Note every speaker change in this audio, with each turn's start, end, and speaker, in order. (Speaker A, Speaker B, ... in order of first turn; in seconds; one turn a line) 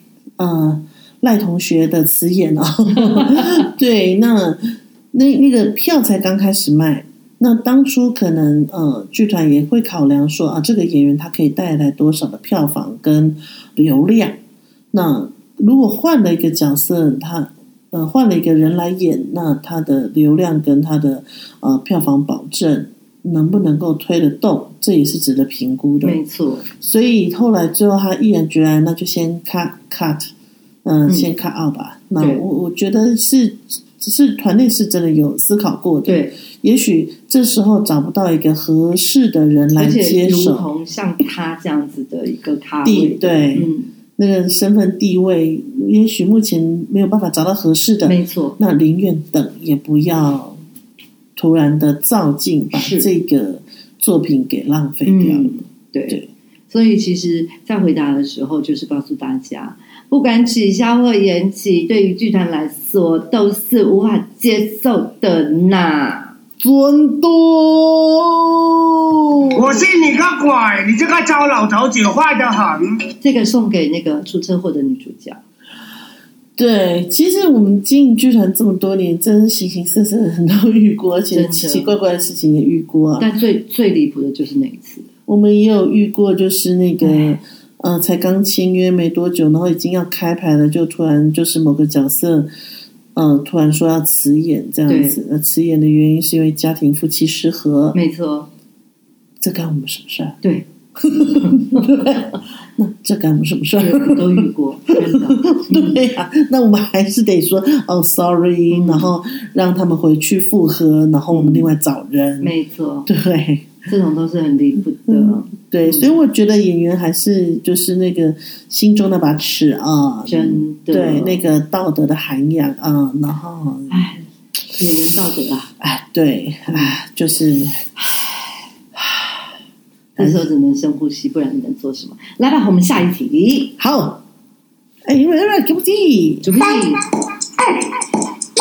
Speaker A: 0.4-14.4
Speaker B: 3.0-3.7
Speaker A: 14.9-26.2
Speaker B: 26.0-26.7
Speaker A: 26.7-30.3
Speaker A: 30.8-40.7
Speaker B: 32.2-32.4
Speaker B: 36.0-36.4
Speaker B: 39.7-43.9
Speaker A: 42.8-50.6
Speaker B: 48.0-48.6
Speaker A: 51.4-55.6
Speaker B: 52.7-53.1
Speaker B: 55.1-66.4
Speaker A: 66.6-69.8
Speaker C: 69.5-73.0
Speaker B: 73.2-75.4
Speaker A: 76.6-83.3
Speaker B: 81.3-82.0
Speaker B: 83.2-85.1
Speaker A: 85.3-92.5
Speaker B: 87.0-87.4
Speaker A: 93.2-98.0
Speaker B: 94.9-95.2
Speaker B: 97.9-98.5
Speaker A: 99.4-100.4
Speaker B: 100.4-100.7
Speaker A: 101.0-104.5
Speaker B: 101.4-102.0
Speaker B: 103.8-106.0
Speaker A: 105.0-112.5
Speaker B: 108.7-109.1
Speaker B: 111.3-111.7
Speaker B: 112.4-113.1
Speaker A: 113.1-113.8
Speaker B: 113.9-116.2
Speaker A: 115.1-124.0
Speaker B: 120.2-121.4
Speaker B: 123.9-125.7
Speaker A: 125.8-127.9
Speaker B: 126.7-127.0
Speaker A: 129.0-129.4
Speaker A: 130.2-130.5
Speaker B: 130.2-133.7
Speaker A: 133.8-134.2
Speaker A: 135.1-136.5
Speaker B: 136.4-137.1